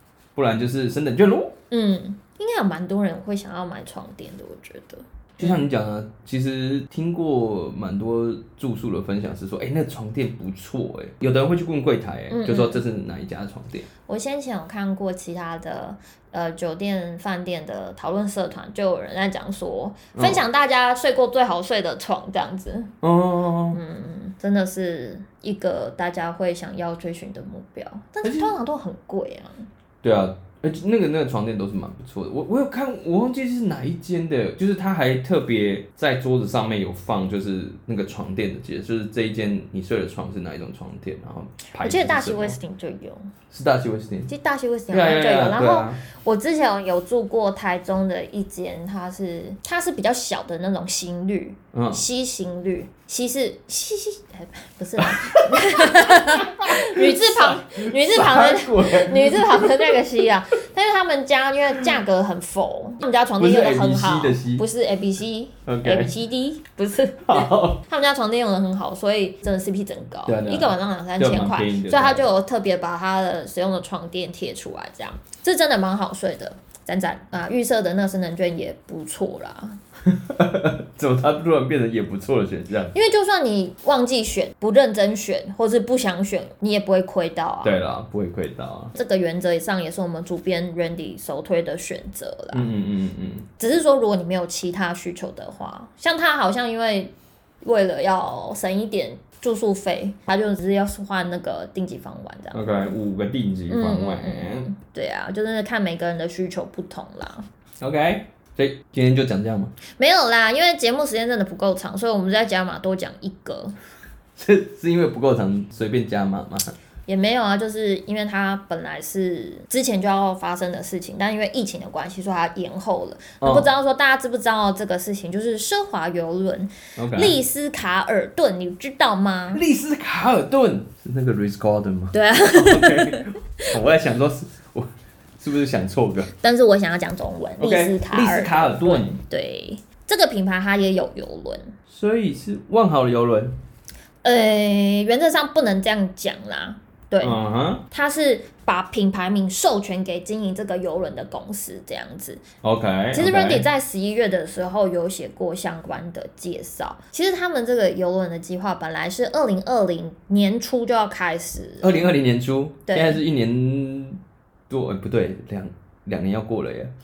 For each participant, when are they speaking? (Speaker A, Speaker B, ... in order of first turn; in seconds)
Speaker A: 0.4-1.6, 5.4-13.9, 20.1-20.4, 23.0-23.8, 28.2-28.5, 30.0-42.6, 43.5-44.3, 44.9-46.0, 51.7-52.0, 55.0-60.0, 63.4-64.6, 65.7-66.1, 67.2-67.8, 70.2-72.2, 80.1-83.0, 87.6-89.0, 92.5-93.5, 102.5-104.7, 107.8-109.7, 114.4-116.7, 123.4-123.7, 127.0-127.4, 129.5-136.3, 137.6-139.2, 141.9-143.6, 147.2-147.8, 152.6-153.7, 161.8-166.9
Speaker B: 1.7-5.6, 12.3-12.8, 14.1-22.9, 23.7-29.7, 41.8-43.3, 44.3-79.8, 82.9-87.8, 89.0-92.7, 93.6-102.7, 103.7-107.5, 110.0-113.8, 117.1-129.6, 132.1-133.7, 136.4-141.7, 144.2-147.4, 147.9-152.4, 153.1-162.0, 162.9-163.2